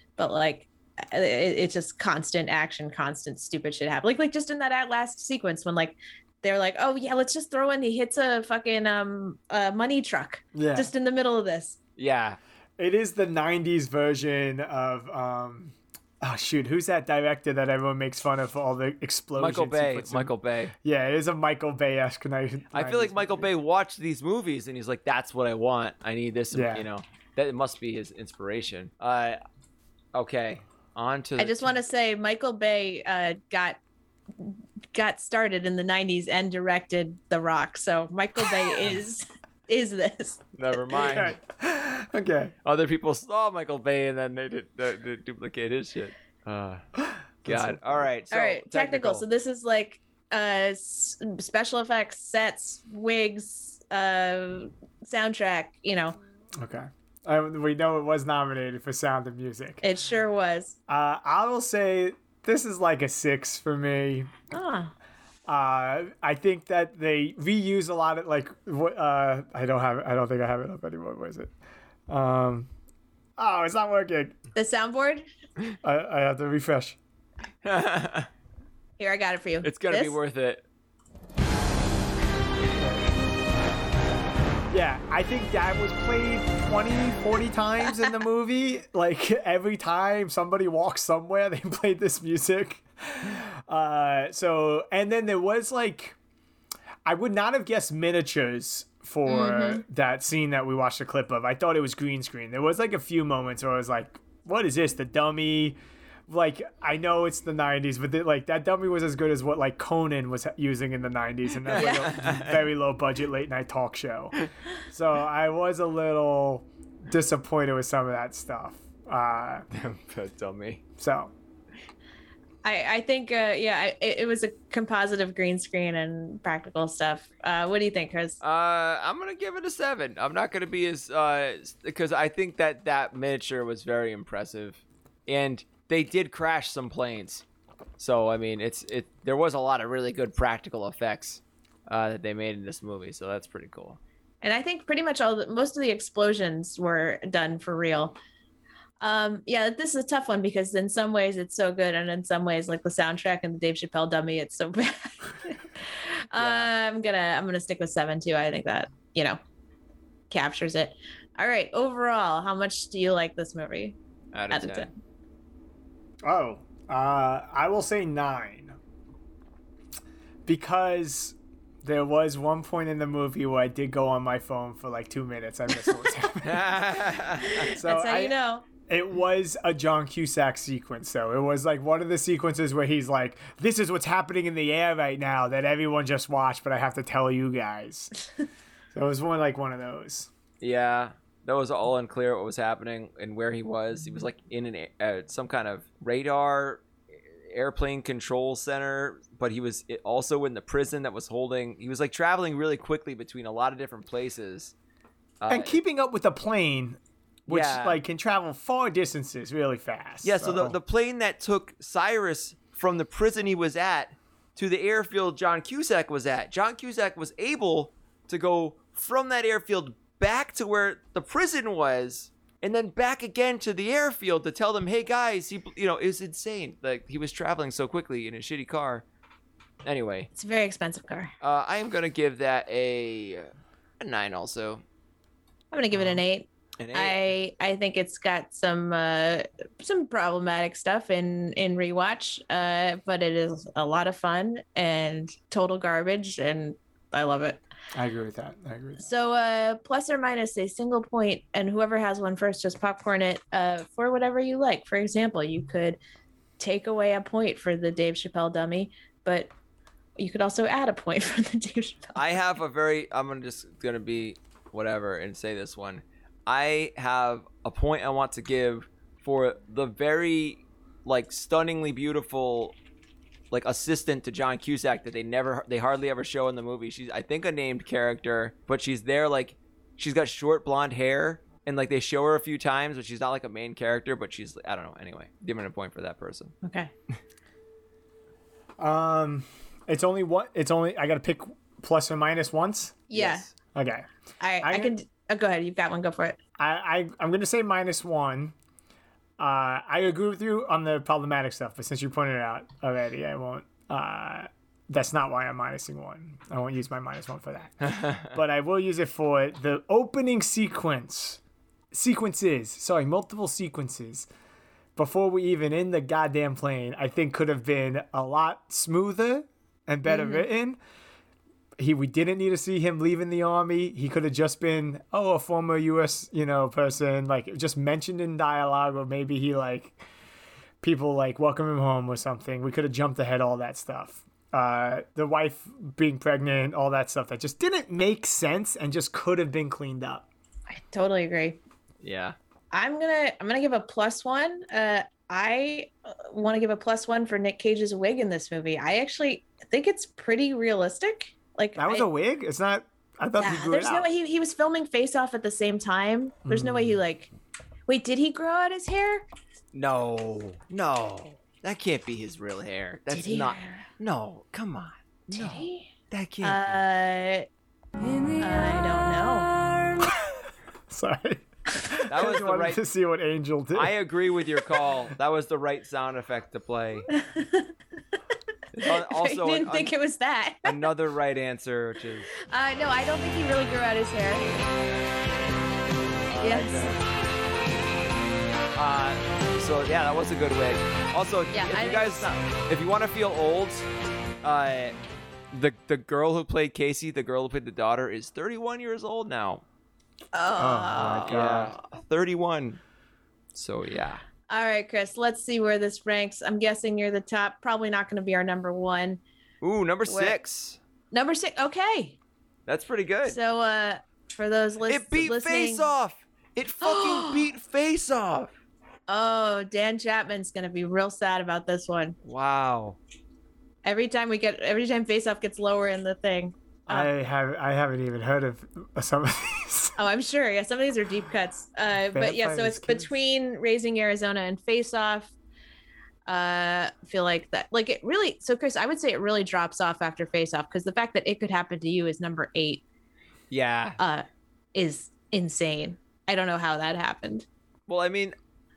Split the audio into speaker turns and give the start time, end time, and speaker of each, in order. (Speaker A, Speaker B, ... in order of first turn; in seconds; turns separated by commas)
Speaker A: 0.2-11.8, Speaker B: 10.6-10.9, Speaker C: 12.0-12.4, Speaker B: 12.8-23.5, Speaker C: 19.4-20.7, Speaker C: 22.7-29.4, Speaker B: 26.5-26.9, Speaker C: 30.1-31.8, Speaker A: 31.4-33.8, Speaker A: 34.4-41.0, Speaker C: 40.5-41.3, Speaker B: 41.1-42.5, Speaker C: 42.6-46.8, Speaker B: 47.0-48.0, Speaker C: 47.4-49.2, Speaker A: 48.3-56.2, Speaker B: 56.6-59.8, Speaker A: 59.8-60.8, Speaker B: 60.9-64.3, Speaker A: 64.5-64.9, Speaker B: 65.5-71.5, Speaker B: 72.1-72.7, Speaker B: 73.4-74.4, Speaker A: 74.6-75.3, Speaker B: 75.8-77.0, Speaker C: 77.6-78.3, Speaker A: 79.0-80.2, Speaker C: 79.6-80.6, Speaker B: 84.7-96.2, Speaker B: 97.0-105.8, Speaker A: 99.3-99.8, Speaker B: 106.3-114.3, Speaker C: 111.7-112.6, Speaker A: 111.8-112.1, Speaker B: 114.9-119.7, Speaker C: 119.7-120.8, Speaker B: 121.0-121.3, Speaker A: 122.6-128.4, Speaker C: 128.4-137.4, Speaker C: 138.0-144.0, Speaker A: 144.4-148.2, Speaker A: 149.0-159.4, Speaker C: 156.4-156.7, Speaker A: 160.3-164.0, Speaker C: 164.3-164.9, Speaker A: 164.5-164.9, Speaker B: 166.2-168.8, Speaker B: 170.5-176.8, Speaker C: 176.4-177.7, Speaker A: 177.6-178.7, Speaker B: 177.7-188.1, Speaker B: 188.9-190.3, Speaker C: 190.6-196.9, Speaker C: 197.5-204.7, Speaker C: 205.4-205.8, Speaker B: 205.5-210.8, Speaker C: 207.5-208.0, Speaker C: 210.2-229.0, Speaker C: 229.8-230.3, Speaker A: 230.3-231.3, Speaker C: 231.4-234.8, Speaker A: 235.7-247.6, Speaker C: 236.8-237.2, Speaker B: 247.9-249.1, Speaker A: 249.0-256.0, Speaker A: 256.6-259.5, Speaker A: 260.2-262.4, Speaker C: 262.2-272.8, Speaker C: 273.5-286.5, Speaker A: 286.6-286.9, Speaker B: 288.8-293.1, Speaker A: 293.1-293.5, Speaker C: 293.1-293.5, Speaker B: 293.8-294.1, Speaker A: 294.4-296.4, Speaker B: 294.6-294.9, Speaker B: 296.6-298.6, Speaker B: 299.4-311.4, Speaker C: 307.8-308.3, Speaker B: 311.9-314.3, Speaker B: 315.0-320.8, Speaker A: 320.1-320.5, Speaker B: 321.8-330.0, Speaker B: 330.8-340.3, Speaker A: 340.7-341.6, Speaker C: 342.0-342.4, Speaker A: 342.7-352.1, Speaker B: 351.8-354.1, Speaker A: 353.4-357.3, Speaker B: 356.5-357.0, Speaker A: 357.9-359.2, Speaker C: 359.7-366.8, Speaker A: 363.1-363.9, Speaker A: 365.3-365.9, Speaker A: 366.4-367.5, Speaker A: 368.4-369.5, Speaker B: 370.9-374.0, Speaker C: 372.1-372.8, Speaker C: 373.7-377.1, Speaker A: 377.1-377.7, Speaker C: 378.7-379.9, Speaker A: 378.8-380.9, Speaker C: 380.6-382.3, Speaker A: 382.4-384.5, Speaker C: 386.3-387.0, Speaker A: 386.4-387.0, Speaker C: 388.8-393.9, Speaker A: 391.5-392.5, Speaker C: 394.4-394.9, Speaker C: 395.5-399.6, Speaker A: 400.3-401.6, Speaker B: 400.6-401.8, Speaker C: 401.2-402.8, Speaker C: 403.5-404.2, Speaker A: 404.5-409.2, Speaker C: 409.6-410.8, Speaker A: 410.1-410.4, Speaker A: 411.1-412.2, Speaker C: 412.7-413.4, Speaker A: 413.2-415.9, Speaker C: 414.9-418.5, Speaker A: 416.8-417.5, Speaker A: 419.1-422.2, Speaker C: 422.2-423.0, Speaker A: 423.8-427.1, Speaker B: 426.9-429.9, Speaker A: 430.0-435.3, Speaker B: 432.1-433.1, Speaker A: 436.3-442.8, Speaker C: 443.5-444.0, Speaker A: 444.0-447.5, Speaker C: 447.9-448.4